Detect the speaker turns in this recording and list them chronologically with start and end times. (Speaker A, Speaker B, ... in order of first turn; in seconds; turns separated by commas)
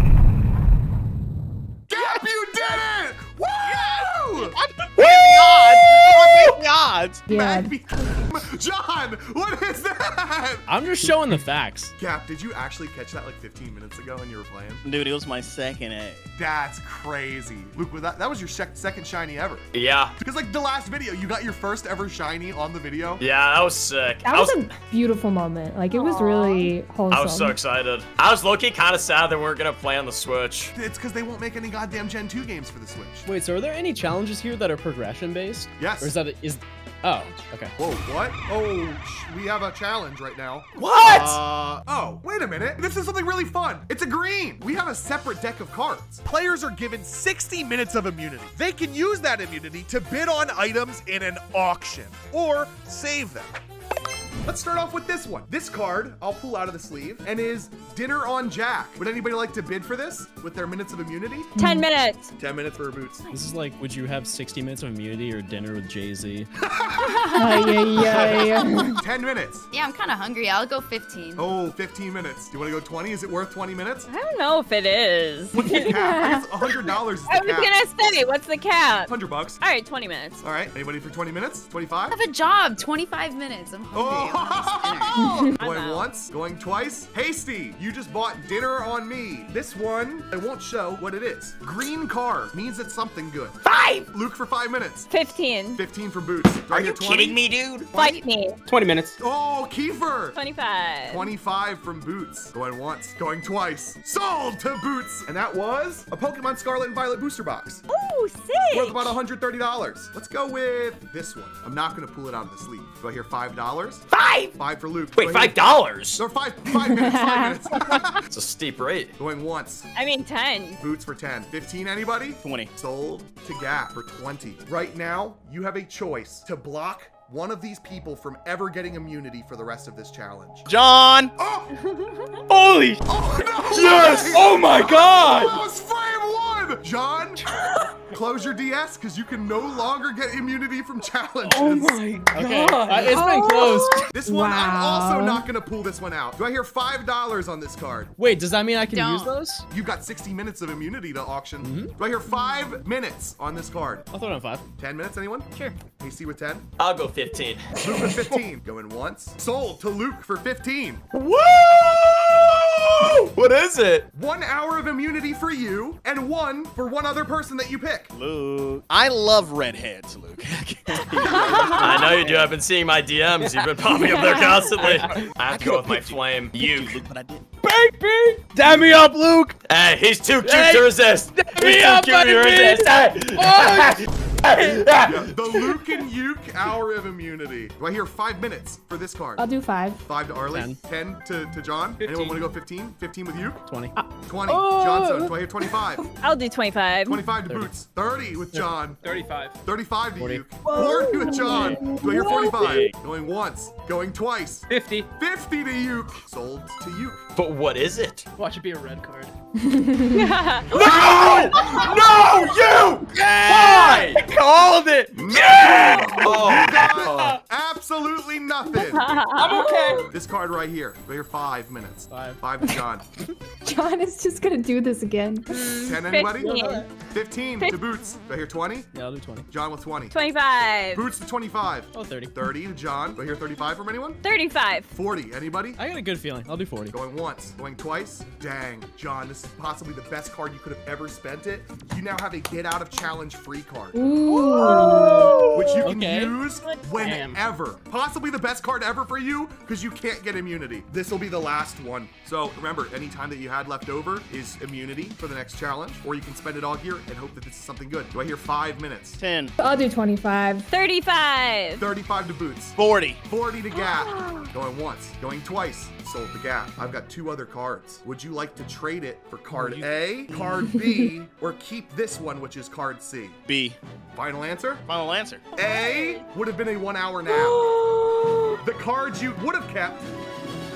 Speaker A: 1.9-6.5, Speaker B: 4.3-7.2, Speaker C: 7.3-7.7, Speaker A: 7.3-10.6, Speaker D: 10.7-11.9, Speaker A: 12.0-14.8, Speaker B: 14.8-16.3, Speaker A: 16.4-19.6, Speaker E: 19.7-20.1, Speaker A: 20.2-23.2, Speaker E: 23.2-24.6, Speaker C: 24.2-27.6, Speaker F: 25.9-26.7, Speaker E: 27.1-30.7, Speaker A: 30.7-33.3, Speaker D: 33.2-37.7, Speaker A: 35.8-36.1, Speaker A: 37.8-53.5, Speaker E: 40.8-41.4, Speaker A: 54.4-61.5, Speaker F: 61.5-62.3, Speaker C: 61.6-61.9, Speaker A: 62.4-63.2, Speaker G: 63.2-63.6, Speaker D: 63.3-66.5, Speaker A: 66.6-69.7, Speaker F: 67.0-67.9, Speaker C: 67.3-69.0, Speaker G: 69.7-71.5, Speaker A: 71.3-74.1, Speaker F: 74.1-76.0, Speaker A: 75.5-77.8, Speaker C: 75.7-76.5, Speaker F: 76.9-80.4, Speaker A: 79.1-79.6, Speaker A: 80.4-82.2, Speaker G: 82.1-85.3, Speaker A: 83.9-93.6, Speaker C: 85.2-85.6, Speaker F: 85.6-86.0, Speaker E: 93.6-94.1, Speaker A: 94.1-95.1, Speaker F: 95.1-95.8, Speaker A: 95.7-97.4, Speaker E: 96.7-97.9, Speaker F: 97.9-98.6, Speaker G: 98.0-98.2, Speaker H: 98.6-99.2, Speaker A: 99.2-100.4, Speaker F: 100.3-101.3, Speaker A: 101.0-107.8, Speaker F: 107.9-109.1, Speaker A: 108.7-118.2, Speaker E: 114.1-114.5, Speaker E: 115.2-116.2, Speaker C: 116.7-118.1, Speaker E: 118.3-119.1, Speaker A: 119.2-119.9, Speaker F: 119.9-120.8, Speaker A: 120.8-130.7, Speaker B: 122.4-122.7, Speaker B: 130.7-131.3, Speaker A: 131.3-131.7, Speaker F: 131.8-132.4, Speaker H: 132.5-133.0, Speaker A: 133.1-137.4, Speaker H: 133.7-135.6, Speaker E: 133.8-134.6, Speaker H: 137.5-137.9, Speaker A: 138.1-142.0, Speaker H: 141.5-143.8, Speaker D: 142.3-144.0, Speaker C: 143.1-145.5, Speaker A: 144.1-148.1, Speaker D: 148.2-149.6, Speaker G: 148.8-149.4, Speaker A: 149.7-154.1, Speaker D: 151.6-151.9, Speaker D: 154.1-154.6, Speaker A: 154.8-156.7, Speaker G: 155.5-155.8, Speaker E: 156.8-157.7, Speaker A: 157.8-161.0, Speaker E: 161.1-164.1, Speaker A: 164.1-168.1, Speaker B: 168.1-172.6, Speaker E: 171.8-177.0, Speaker H: 173.8-175.3, Speaker B: 174.7-177.4, Speaker H: 177.6-179.6, Speaker E: 179.7-185.3, Speaker H: 180.4-184.8, Speaker A: 185.0-189.4, Speaker C: 189.4-190.0, Speaker A: 190.0-193.6, Speaker D: 190.5-190.8, Speaker D: 193.7-193.9, Speaker A: 194.2-196.1, Speaker H: 194.5-195.2, Speaker F: 196.2-197.3, Speaker A: 197.1-199.0, Speaker D: 197.4-197.7, Speaker H: 199.0-199.6, Speaker A: 199.6-207.2, Speaker D: 200.2-200.5, Speaker H: 200.7-201.7, Speaker C: 201.3-202.6, Speaker H: 204.7-205.1, Speaker E: 207.3-208.3, Speaker H: 208.4-209.3, Speaker C: 209.6-210.4, Speaker F: 210.1-210.7, Speaker E: 210.7-214.2, Speaker H: 210.8-211.9, Speaker A: 210.8-211.9, Speaker B: 213.1-216.1, Speaker A: 215.1-219.3, Speaker E: 215.3-217.4, Speaker F: 218.8-219.6, Speaker H: 219.3-220.1, Speaker C: 219.4-220.1, Speaker A: 220.1-223.0, Speaker D: 222.1-222.4, Speaker C: 223.6-225.6, Speaker F: 225.5-226.9, Speaker A: 225.8-228.9, Speaker D: 226.4-226.8, Speaker D: 228.9-229.4, Speaker A: 229.5-230.1, Speaker F: 230.1-231.1, Speaker A: 230.9-234.2, Speaker D: 231.9-232.5, Speaker F: 234.2-234.9, Speaker A: 234.9-235.8, Speaker D: 235.8-236.9, Speaker A: 236.9-244.9, Speaker C: 243.9-245.6, Speaker A: 245.5-259.2, Speaker D: 245.8-246.4, Speaker H: 247.0-247.4, Speaker B: 259.2-259.5, Speaker C: 259.6-260.6, Speaker F: 260.7-261.9, Speaker A: 261.8-273.4, Speaker B: 262.8-263.2, Speaker F: 263.7-264.5, Speaker C: 270.7-271.1, Speaker B: 273.4-273.8, Speaker A: 274.1-274.8, Speaker B: 274.9-275.5, Speaker F: 275.5-276.2, Speaker A: 275.5-277.7, Speaker A: 278.6-280.1